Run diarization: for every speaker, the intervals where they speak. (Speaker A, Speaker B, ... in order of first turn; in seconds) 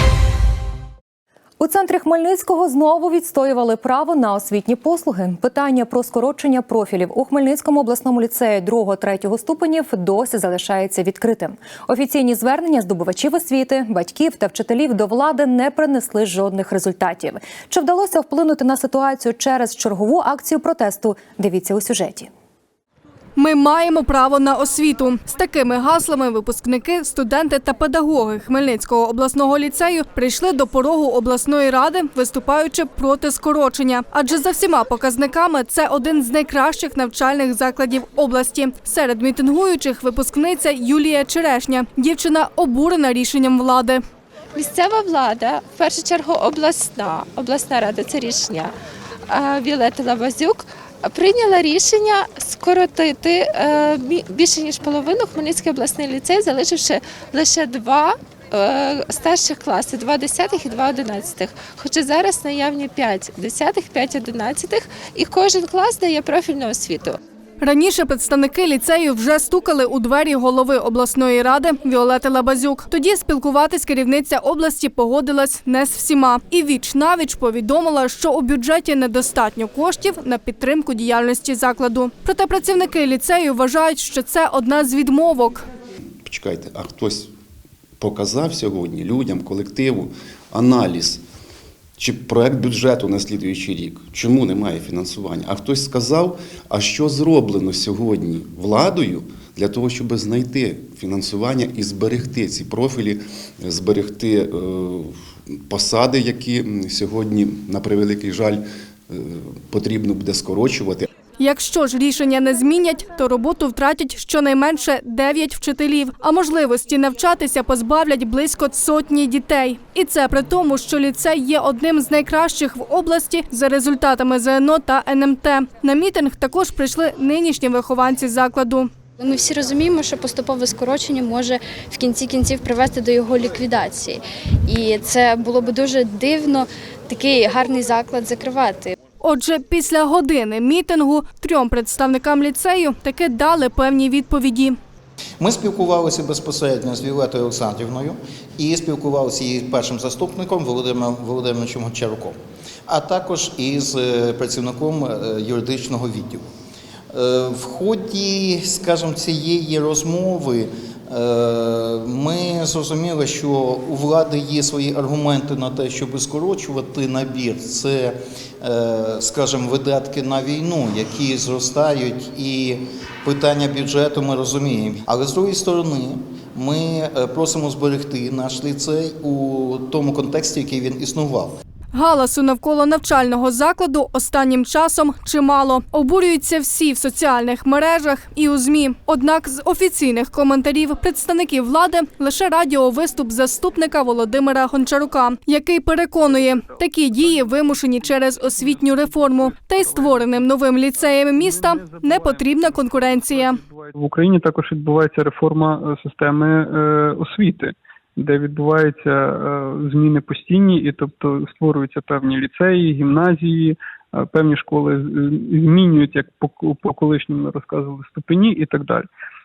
Speaker A: 1.6-22.3
Speaker B: 23.4-44.0, 67.6-85.7, 111.4-128.9, 139.2-144.8, 181.9-203.6
Speaker C: 44.5-48.7, 49.3-67.2
Speaker D: 86.2-87.3, 88.0-91.2, 92.0-105.1, 105.7-111.1
Speaker E: 129.2-138.9
Speaker F: 145.4-152.4, 152.9-156.4, 157.1-181.6
Speaker G: 196.2-219.1